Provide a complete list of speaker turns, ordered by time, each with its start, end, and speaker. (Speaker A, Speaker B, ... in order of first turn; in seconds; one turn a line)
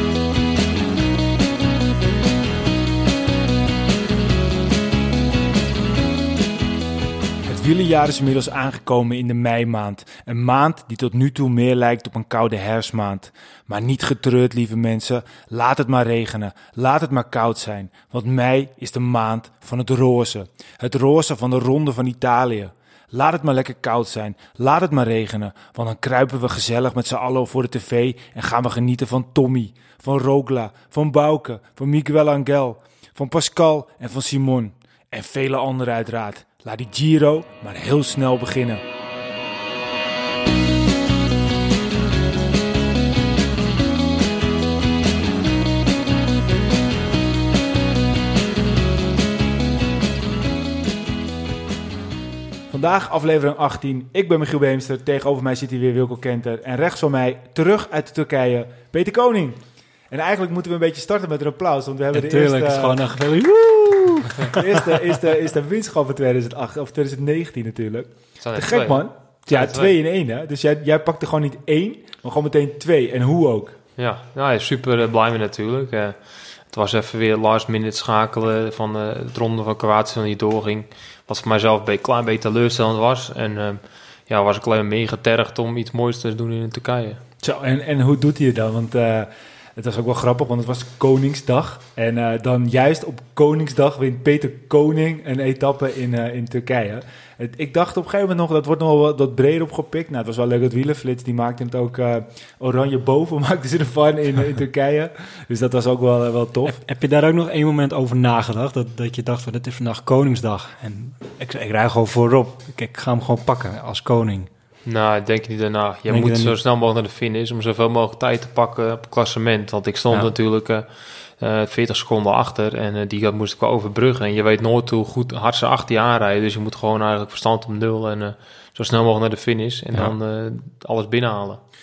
Speaker A: 7.5-38.8
Speaker A: 52.7-63.0
Speaker B: 62.1-65.0
Speaker A: 64.4-73.8
Speaker C: 68.4-70.0
Speaker C: 74.0-76.2
Speaker C: 76.7-87.2
Speaker A: 87.4-106.8
Speaker B: 106.7-114.5
Speaker C: 114.9-120.9
Speaker B: 116.1-116.5
Speaker C: 121.4-131.6